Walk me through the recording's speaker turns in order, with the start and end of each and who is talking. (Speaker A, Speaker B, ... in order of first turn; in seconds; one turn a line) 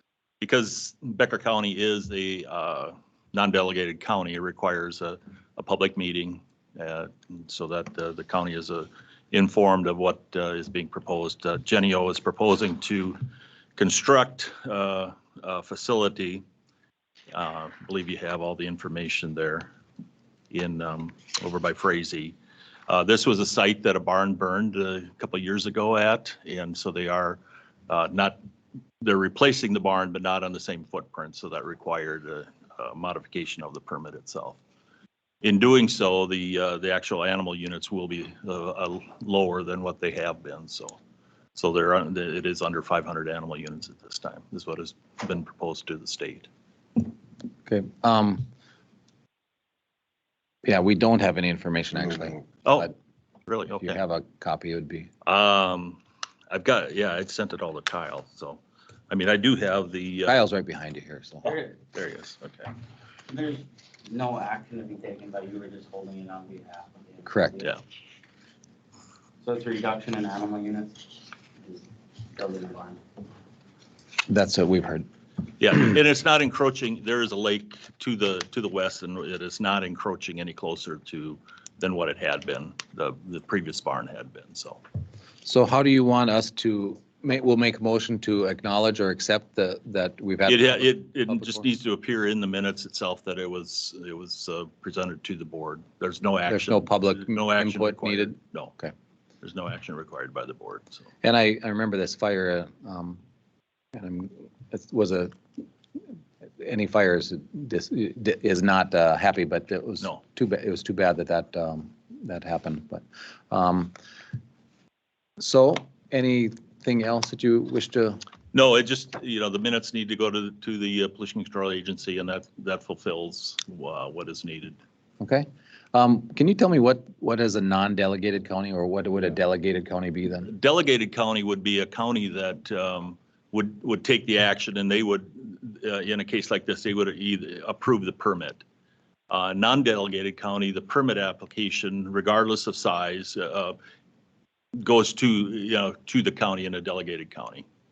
Speaker A: 0.4-13.2
Speaker A: 13.8-16.4
Speaker A: 17.3-19.7
Speaker A: 20.5-22.3
Speaker A: 22.9-28.4
Speaker A: 29.0-34.6
Speaker A: 35.4-41.0
Speaker A: 41.5-46.5
Speaker B: 47.7-48.4
Speaker B: 50.6-52.9
Speaker A: 52.6-52.9
Speaker A: 53.5-54.0
Speaker B: 53.8-55.1
Speaker A: 55.2-60.4
Speaker B: 60.3-61.5
Speaker A: 61.4-62.7
Speaker C: 61.4-61.7
Speaker C: 63.3-67.8
Speaker B: 67.2-67.6
Speaker C: 69.4-73.0
Speaker B: 74.3-75.0
Speaker A: 75.6-84.8
Speaker B: 85.4-91.6
Speaker A: 90.5-98.7
Speaker B: 96.5-98.9
Speaker A: 99.4-101.0
Speaker B: 101.2-103.2
Speaker B: 103.9-105.3
Speaker B: 106.6-113.9
Speaker B: 115.4-118.2
Speaker A: 118.5-124.8
Speaker B: 125.2-130.5
Speaker A: 130.4-138.6
Speaker A: 139.3-143.8
Speaker A: 144.8-147.6